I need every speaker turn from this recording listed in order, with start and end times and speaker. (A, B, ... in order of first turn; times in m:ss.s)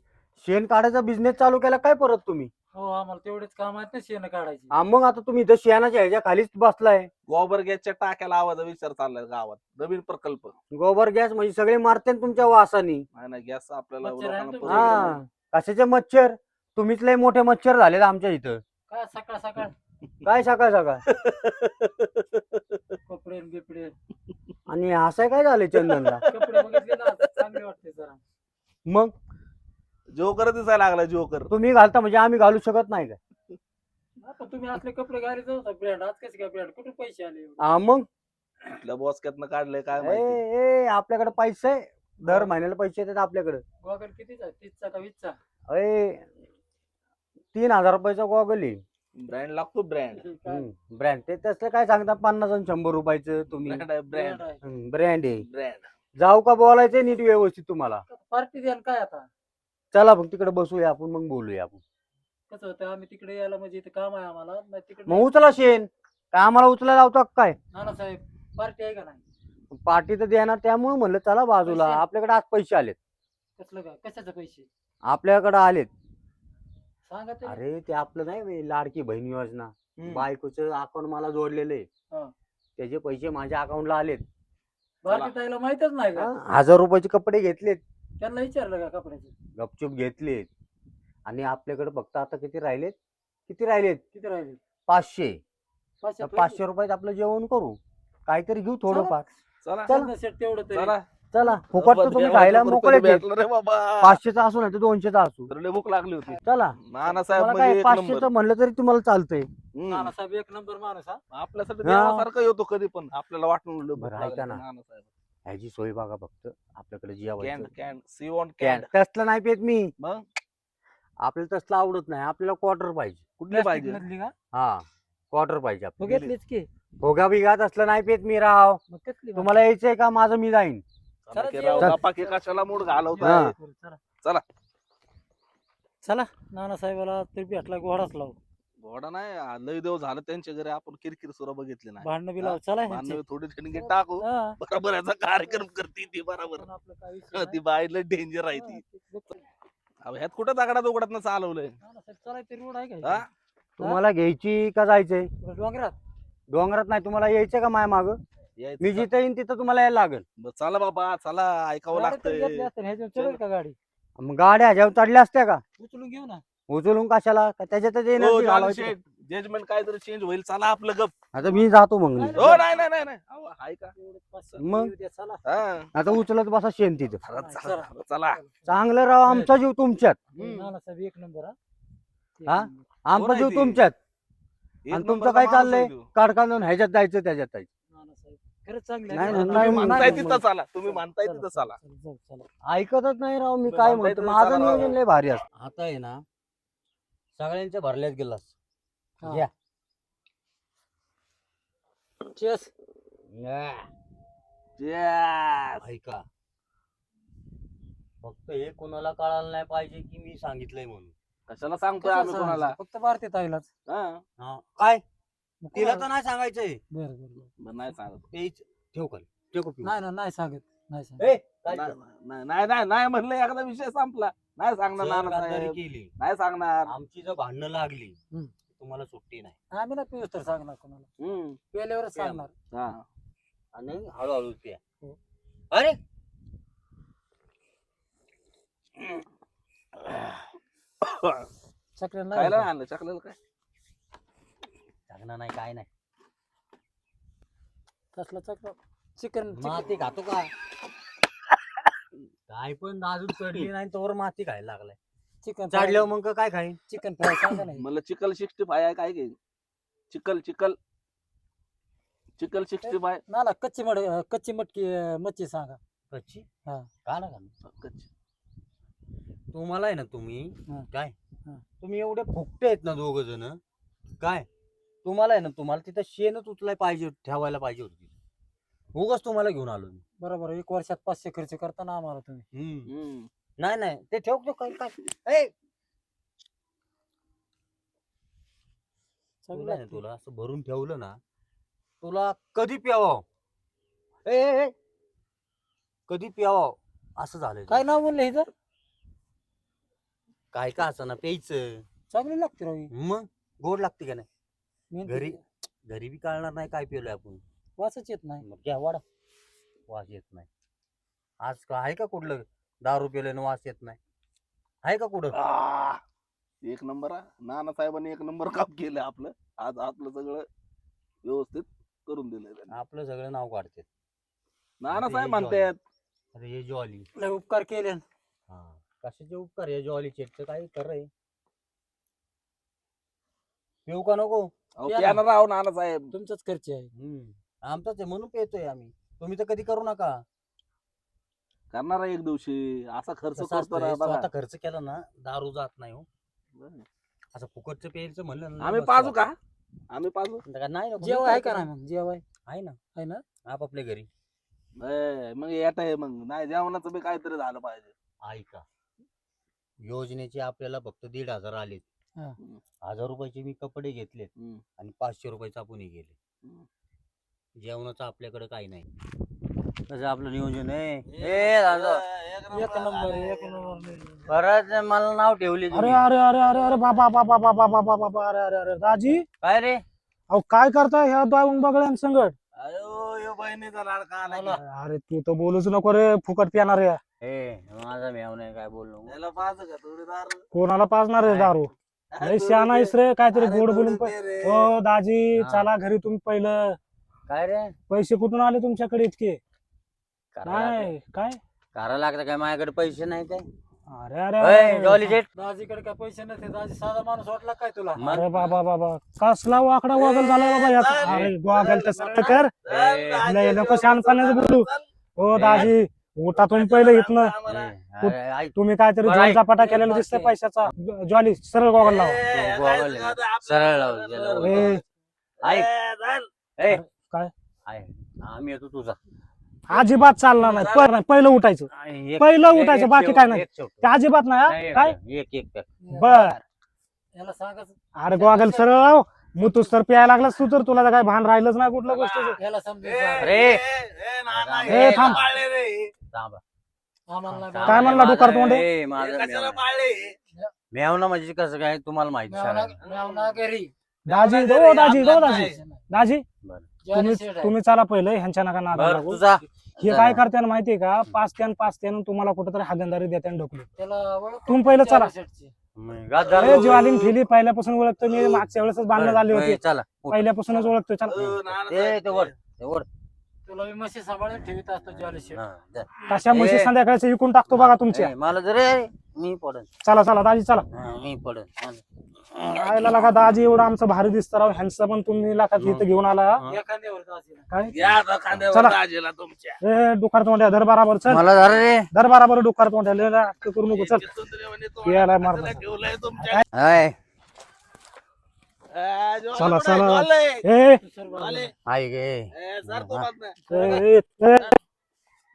0:00.4-0:02.5 A
0:02.7-0:04.7 B
0:04.7-0:07.1 A
0:07.3-0:10.5 C
0:10.7-0:13.0 A
0:13.2-0:15.2 C
0:14.0-0:15.2 B
0:14.6-0:18.6 A
0:18.9-0:19.7 B
0:20.2-0:21.0 A
0:21.2-0:21.5 C
0:23.1-0:23.9 B
0:24.7-0:26.2 A
0:26.2-0:27.2 C
0:26.2-0:28.2 B
0:28.8-0:29.1 A
0:30.1-0:31.5 C
0:31.5-0:33.2 A
0:34.2-0:37.6 B
0:37.6-0:38.1 A
0:38.7-0:40.4 C
0:40.0-0:43.6 A
0:42.2-0:42.5 B
0:43.8-0:45.4 B
0:45.7-0:46.3 A
0:47.5-0:48.8 A
0:49.2-0:50.2 C
0:50.1-0:50.7 B
0:50.4-0:53.8 A
0:53.6-0:54.4 C
0:54.1-0:54.6 B
0:54.6-0:55.4 A
0:55.4-0:55.9 C
0:56.2-0:58.0 A
0:58.1-0:59.3 B
0:59.9-1:01.8 A
1:02.5-1:05.5 B
1:05.1-1:07.6 A
1:07.7-1:09.2 B
1:09.7-1:13.0 A
1:11.6-1:12.0 B
1:13.6-1:14.7 B
1:15.1-1:15.9 A
1:17.1-1:17.6 B
1:17.4-1:21.9 A
1:20.0-1:20.2 C
1:22.8-1:24.2 A
1:25.0-1:26.3 B
1:25.1-1:25.3 C
1:26.2-1:27.8 A
1:28.2-1:29.3 B
1:29.6-1:30.5 A
1:31.2-1:33.0 A
1:33.5-1:34.0 A
1:34.1-1:34.6 B
1:34.9-1:35.4 A
1:36.0-1:36.6 B
1:36.2-1:39.2 A
1:38.9-1:39.2 B
1:39.6-1:39.9 C
1:39.8-1:41.0 B
1:40.7-1:41.0 C
1:41.3-1:43.2 A
1:41.7-1:44.2 C
1:44.0-1:45.5 A
1:45.5-1:48.3 C
1:46.4-1:49.5 A
1:49.7-1:50.1 C
1:49.9-1:51.2 B
1:51.3-1:55.1 C
1:51.8-1:52.3 A
1:54.0-1:54.6 A
1:55.4-1:57.7 A
1:57.4-1:58.9 C
1:58.6-1:59.9 A
2:01.2-2:03.2 A
2:03.4-2:04.0 C
2:03.5-2:04.3 B
2:04.5-2:06.0 A
2:06.0-2:06.7 B
2:06.0-2:06.3 C
2:07.0-2:08.8 A
2:08.9-2:09.6 B
2:09.4-2:10.8 A
2:11.2-2:13.5 C
2:11.3-2:14.0 B
2:13.2-2:13.5 A
2:16.0-2:18.4 B
2:18.8-2:26.6 C
2:22.0-2:23.2 B
2:23.7-2:24.6 B
2:26.5-2:27.6 B
2:27.3-2:28.8 C
2:28.5-2:29.4 B
2:30.0-2:31.7 C
2:31.8-2:33.3 B
2:33.8-2:35.3 A
2:35.4-2:36.0 B
2:36.5-2:38.2 A
2:38.6-2:39.1 C
2:38.8-2:40.2 A
2:40.4-2:43.4 C
2:41.9-2:43.8 B
2:44.2-2:45.6 A
2:45.8-2:46.4 B
2:46.7-2:48.9 A
2:48.2-2:51.1 C
2:51.3-2:52.6 A
2:52.2-2:52.8 B
2:52.4-2:53.9 C
2:54.0-2:55.6 B
2:54.6-2:54.9 A
2:55.4-2:55.9 C
2:55.9-2:57.2 A
2:57.2-2:58.4 C
2:57.3-2:58.5 B
2:58.7-3:00.7 A
2:59.3-2:59.5 B
3:00.4-3:01.5 B
3:02.4-3:02.8 B
3:02.4-3:04.0 A
3:03.1-3:03.8 C
3:04.8-3:06.1 C
3:04.9-3:07.7 A
3:07.9-3:10.3 B
3:09.1-3:10.4 A
3:09.2-3:11.8 C
3:10.8-3:12.5 B
3:12.7-3:16.2 A
3:13.7-3:15.0 C
3:17.4-3:18.5 A
3:19.2-3:19.5 B
3:19.2-3:19.5 A
3:22.3-3:22.7 B
3:23.3-3:23.9 A
3:24.8-3:25.8 C
3:25.8-3:26.2 A
3:28.2-3:31.1 A
3:31.5-3:32.8 C
3:32.0-3:33.7 B
3:33.9-3:34.2 C
3:34.4-3:35.0 A
3:35.6-3:36.0 B
3:35.7-3:36.8 A
3:36.9-3:37.5 B
3:37.6-3:38.2 C
3:38.3-3:39.9 A
3:39.8-3:41.3 B
3:41.2-3:41.9 A
3:41.7-3:46.9 C
3:45.0-3:46.1 A
3:46.8-3:48.2 A
3:48.7-3:49.5 A
3:49.7-3:51.1 B
3:51.2-3:51.6 C
3:51.7-3:52.5 B
3:52.2-3:52.4 A
3:52.7-3:53.0 C
3:53.7-3:54.8 A
3:55.7-3:56.0 A
4:00.0-4:00.4 C
4:01.0-4:01.4 C
4:02.0-4:02.7 B
4:02.3-4:03.4 C
4:05.1-4:05.9 A
4:08.2-4:09.9 B
4:09.5-4:10.5 A
4:12.5-4:15.0 A
4:15.4-4:16.0 B
4:15.7-4:16.8 A
4:16.9-4:17.8 B
4:17.8-4:19.4 C
4:20.1-4:20.8 C
4:22.4-4:23.2 C
4:22.8-4:25.8 B
4:26.1-4:26.5 A
4:27.0-4:27.5 A
4:27.6-4:28.1 C
4:29.5-4:31.1 A
4:31.8-4:33.6 A
4:34.2-4:34.5 A
4:35.0-4:38.1 A
4:38.9-4:40.0 A
4:40.2-4:42.4 B
4:42.5-4:42.9 A
4:42.9-4:43.3 C
4:43.6-4:45.5 A
4:49.4-4:50.0 B
4:49.5-4:51.2 A
4:52.0-4:53.2 A
4:54.2-4:54.7 A
4:56.1-4:57.8 A
4:57.7-4:58.5 B
5:00.5-5:01.8 A
5:02.1-5:02.9 B
5:02.9-5:04.3 A
5:04.9-5:05.4 B
5:05.0-5:07.4 A
5:07.8-5:08.4 B
5:08.4-5:09.0 A
5:09.9-5:10.5 A
5:11.4-5:14.0 A
5:14.8-5:15.4 A
5:15.3-5:16.0 C
5:16.6-5:20.4 C
5:21.2-5:22.7 C
5:22.7-5:23.9 A
5:24.8-5:25.8 C
5:24.9-5:25.7 A
5:26.3-5:27.1 A
5:27.2-5:28.0 B
5:28.5-5:31.1 A
5:33.8-5:34.5 A
5:34.8-5:36.1 C
5:34.9-5:35.2 B
5:36.1-5:36.9 B
5:36.9-5:40.2 A
5:41.7-5:44.3 C
5:43.4-5:46.1 A
5:46.6-5:46.8 C
5:47.3-5:49.2 A
5:48.6-5:49.4 C
5:49.9-5:50.4 C
5:50.4-5:51.7 A
5:51.0-5:52.2 B
5:52.4-5:52.8 A
5:52.9-5:53.2 B
5:53.4-5:54.1 A
5:54.8-5:57.9 C
5:58.2-5:58.6 A
5:59.8-6:01.8 A
6:02.8-6:06.1 A
6:04.4-6:04.6 C
6:07.6-6:08.9 A
6:09.9-6:12.0 A
6:11.1-6:13.9 C
6:12.5-6:14.3 B
6:14.3-6:16.0 A
6:15.7-6:19.2 D
6:19.4-6:19.8 A
6:20.3-6:22.3 D
6:22.6-6:24.6 C
6:24.2-6:24.6 B
6:24.6-6:27.0 D
6:27.2-6:29.2 A
6:29.1-6:30.4 C
6:30.5-6:36.8 D
6:31.2-6:31.5 A
6:32.1-6:34.7 C
6:35.4-6:35.6 A
6:37.3-6:37.8 A
6:37.9-6:39.4 D
6:40.3-6:40.9 A
6:40.4-6:41.4 D
6:41.7-6:43.5 A
6:43.9-6:45.2 D
6:44.4-6:45.3 A
6:45.4-6:48.0 B
6:48.0-6:48.5 A
6:48.0-6:52.5 D
6:49.9-6:52.0 C
6:51.0-6:51.3 A
6:51.9-6:52.4 B
6:52.6-6:54.8 C
6:52.6-6:53.3 A
6:53.2-6:57.3 D
6:55.3-6:55.7 A
6:55.4-6:55.7 C
6:56.4-6:57.7 C
6:57.5-6:59.9 A
6:58.0-7:02.2 D
6:59.5-7:00.3 B
7:01.8-7:04.8 C
7:02.3-7:04.8 A
7:04.4-7:04.8 D
7:05.4-7:06.3 C
7:05.4-7:05.7 A
7:06.6-7:06.8 A
7:06.6-7:07.3 D
7:07.6-7:09.0 A
7:09.7-7:15.0 D
7:10.4-7:10.9 C
7:11.7-7:13.9 A
7:14.4-7:15.7 A
7:15.8-7:16.4 B
7:15.9-7:16.4 D
7:17.1-7:18.7 B
7:18.0-7:22.4 D
7:21.9-7:25.9 C
7:22.4-7:23.3 B
7:23.2-7:23.6 A
7:24.3-7:25.3 A
7:24.7-7:25.2 D
7:26.1-7:26.4 A
7:27.1-7:28.2 B
7:27.3-7:29.6 A
7:27.6-7:28.6 D
7:28.9-7:30.2 C
7:30.7-7:32.8 A
7:32.3-7:33.7 B
7:32.8-7:33.3 C
7:34.0-7:35.5 C
7:34.1-7:36.2 D
7:34.9-7:35.8 B
7:36.4-7:36.7 A
7:36.8-7:37.5 B
7:36.9-7:39.2 D
7:38.7-7:40.2 A
7:39.8-7:43.7 D
7:43.8-7:45.5 B
7:44.5-7:45.1 D
7:45.7-7:46.9 A
7:46.2-7:47.1 C
7:46.4-7:51.2 D
7:48.9-7:52.8 A
7:51.1-7:52.3 C
7:53.5-7:55.4 B
7:54.9-7:56.7 A
7:56.1-7:58.1 D
7:57.5-7:59.7 A
7:59.8-8:00.7 D
8:00.7-8:01.8 A
8:02.4-8:06.4 D
8:05.6-8:05.8 A
8:06.5-8:07.5 B
8:07.5-8:08.0 D
8:07.7-8:09.6 C
8:08.5-8:08.8 D
8:09.6-8:11.3 D
8:11.0-8:11.9 A
8:11.9-8:14.1 D
8:13.7-8:16.4 C
8:14.8-8:15.6 D
8:16.2-8:16.4 D
8:16.5-8:17.0 A
8:18.7-8:20.4 C
8:19.3-8:20.8 D
8:20.8-8:21.5 B
8:21.1-8:21.5 C
8:21.6-8:23.1 A
8:22.3-8:23.7 C
8:23.5-8:23.8 B
8:23.5-8:24.5 D